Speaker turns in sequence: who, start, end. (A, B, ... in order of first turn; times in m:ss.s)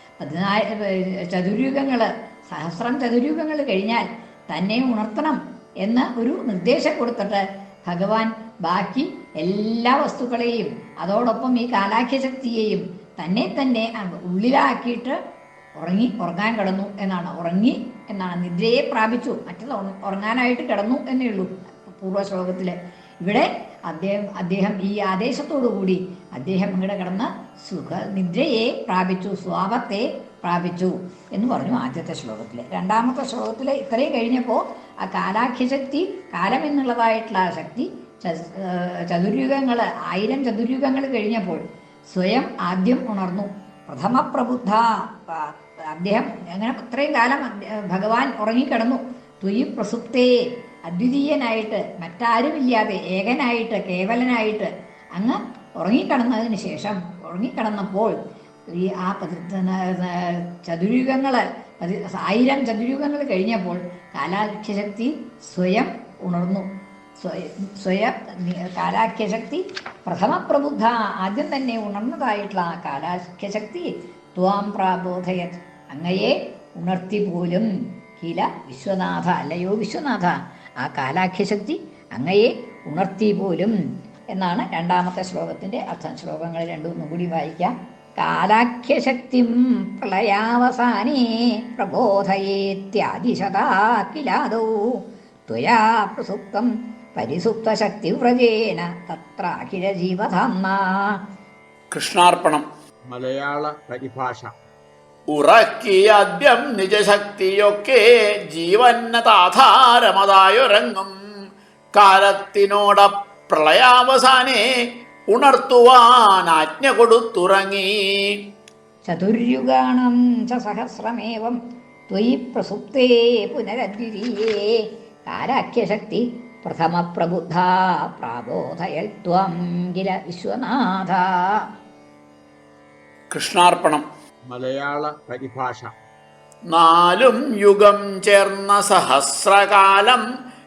0:00.2-0:15.2 A
0:15.8-0:58.2 A
0:58.7-1:06.7 A
1:07.2-1:23.7 A
1:24.3-1:41.2 A
1:41.9-1:42.6 B
1:43.1-1:44.5 C
1:45.3-1:51.1 B
1:51.9-1:58.4 B
1:59.0-2:01.6 A
2:02.1-2:11.7 A
2:13.3-2:14.0 B
2:14.5-2:15.9 C
2:16.7-2:20.2 B